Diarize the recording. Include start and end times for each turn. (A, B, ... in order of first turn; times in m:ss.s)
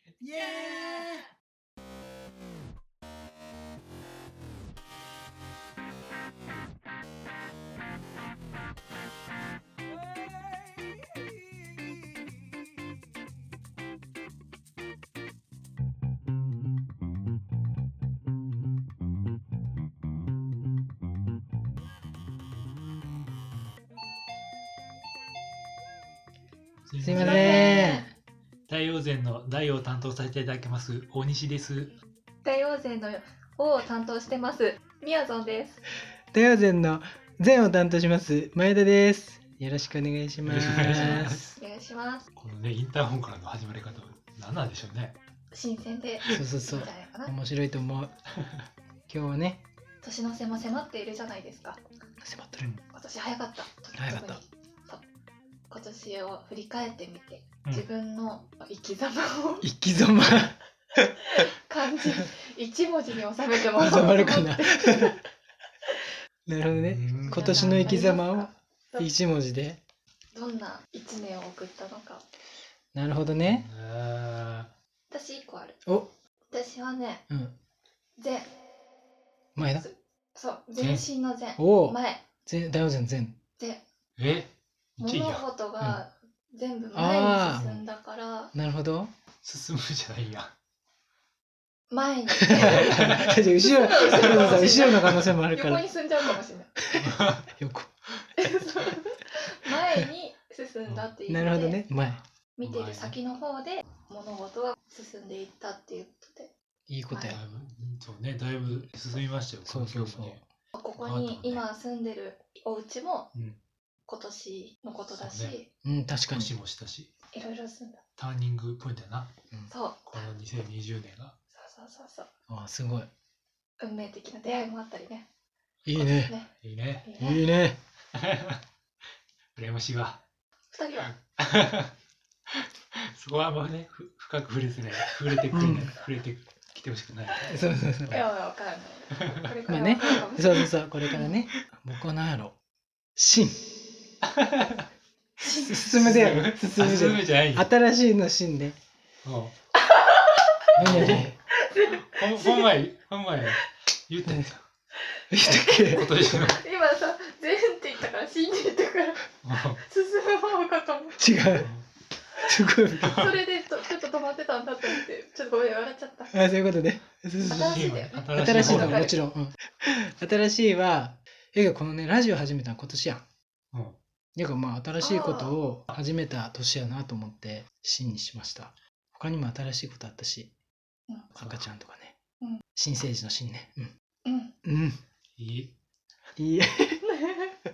0:00.2-0:01.3 A
0:26.9-0:27.8 B
0:27.0-0:28.0 A
0:27.1-0:28.1 C
0:28.7-0:31.9 B
0:32.4-0:35.8 C
0:36.3-0:41.5 A
0:40.4-0:41.5 B
0:40.9-0:42.2 C
0:42.4-0:45.2 B
0:45.5-0:47.3 C
0:46.3-0:48.1 A
0:49.1-0:49.6 A
0:50.0-0:51.8 C
0:52.2-0:52.7 A
0:52.9-0:55.0 C
0:53.9-0:54.4 A
0:55.7-0:59.6 C
0:59.6-1:01.1 A
1:01.3-1:05.2 C
1:03.7-1:05.1 A
1:06.4-1:09.8 A
1:06.7-1:08.0 B
1:07.2-1:09.1 C
1:10.3-1:12.2 C
1:12.9-1:13.7 A
1:13.4-1:14.7 B
1:15.1-1:15.8 C
1:16.5-1:17.2 C
1:17.3-1:17.5 A
1:18.2-1:18.5 C
1:19.5-1:19.9 A
1:19.8-1:22.2 C
1:20.8-1:21.0 B
1:21.6-1:23.3 A
1:24.2-1:25.4 B
1:25.0-1:28.5 C
1:26.9-1:27.8 A
1:28.5-1:29.1 A
1:29.4-1:30.5 B
1:31.9-1:36.7 C
1:32.4-1:35.8 A
1:32.5-1:33.4 B
1:34.0-1:35.3 B
1:36.8-1:37.9 A
1:37.0-1:37.5 B
1:38.4-1:41.8 C
1:41.3-1:42.2 A
1:42.6-1:46.5 C
1:42.6-1:43.2 B
1:46.9-1:47.4 A
1:47.1-1:47.4 C
1:47.3-1:50.4 B
1:49.6-1:50.4 A
1:50.7-1:53.3 C
1:51.0-1:51.6 B
1:53.3-1:53.6 B
1:54.1-1:55.7 C
1:55.1-1:55.5 B
1:55.8-1:56.5 A
1:56.3-1:57.1 B
1:57.3-1:58.0 C
1:58.2-1:59.3 B
1:59.7-2:00.3 C
2:00.0-2:01.3 B
2:01.5-2:02.3 C
2:02.5-2:03.1 A
2:03.8-2:05.3 C
2:05.8-2:06.3 A
2:06.0-2:06.5 C
2:06.6-2:07.1 B
2:07.0-2:07.4 C
2:07.2-2:07.8 A
2:08.1-2:08.6 B
2:09.5-2:10.2 B
2:10.7-2:11.1 C
2:11.2-2:11.9 B
2:12.5-2:17.6 B
2:15.5-2:15.9 A
2:17.4-2:18.2 A
2:18.1-2:21.3 C
2:19.7-2:22.5 A
2:23.2-2:23.8 A
2:24.2-2:24.8 B
2:25.4-2:26.2 C
2:25.4-2:28.8 A
2:25.8-2:27.7 B
2:29.2-2:29.5 B
2:29.8-2:32.7 C
2:30.8-2:31.3 A
2:30.8-2:31.3 B
2:32.0-2:34.6 B
2:35.3-2:36.3 A
2:35.3-2:41.4 C
2:35.9-2:36.6 B
2:39.4-2:39.8 B
2:41.2-2:41.7 A
2:41.6-2:41.8 B
2:42.4-2:43.3 A
2:43.0-2:46.3 C
2:46.3-2:53.2 A
2:47.4-2:49.2 C
2:47.6-2:49.1 B
2:53.7-2:54.0 B
2:54.4-3:00.5 A
2:55.0-2:55.5 C
3:01.3-3:02.1 A
3:02.7-3:03.9 A
3:04.2-3:04.5 C
3:04.6-3:05.0 A
3:05.4-3:05.7 B
3:06.4-3:07.0 A
3:07.2-3:07.5 C